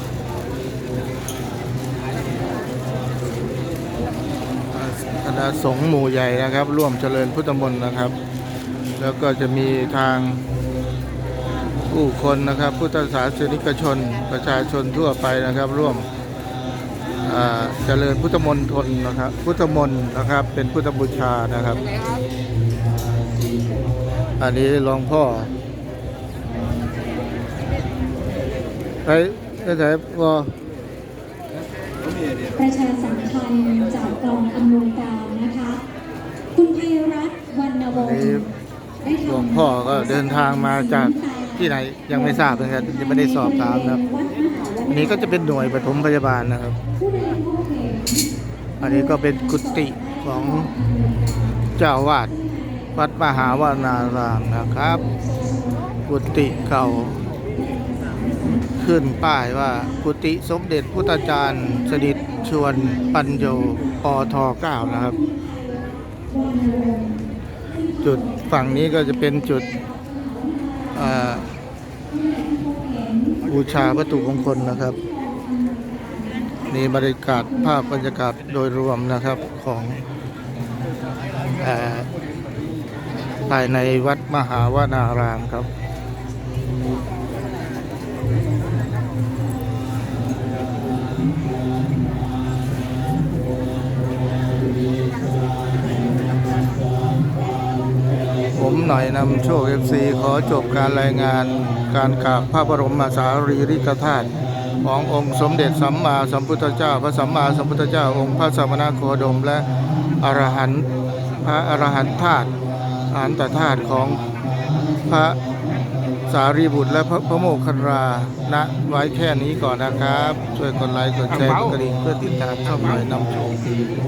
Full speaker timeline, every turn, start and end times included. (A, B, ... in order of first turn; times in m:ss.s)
0:04.7-0:08.2 A
0:09.0-0:10.4 A
0:11.9-0:16.1 A
0:17.2-0:21.9 A
0:24.4-0:25.5 A
0:29.0-0:30.6 A
0:32.6-0:35.8 B
0:36.5-0:37.9 B
0:37.9-0:38.5 A
0:39.2-0:44.0 A
0:44.0-0:44.8 B
0:44.9-0:46.8 A
0:47.0-0:48.2 B
0:48.8-0:50.7 A
0:51.8-0:52.3 A
0:52.9-0:55.0 A
0:56.1-0:57.4 A
0:57.7-0:58.6 B
0:58.8-1:05.2 A
1:05.2-1:07.2 B
1:08.0-1:09.8 A
1:09.9-1:10.9 B
1:10.9-1:11.5 A
1:12.1-1:13.4 B
1:13.4-1:15.0 A
1:15.0-1:16.6 B
1:16.7-1:20.0 A
1:21.6-1:22.1 A
1:23.4-1:25.7 A
1:38.5-1:49.7 A
1:50.2-1:50.9 A
1:51.4-1:52.5 A
1:53.1-1:54.2 A
1:55.0-1:55.4 A
1:56.3-2:03.7 A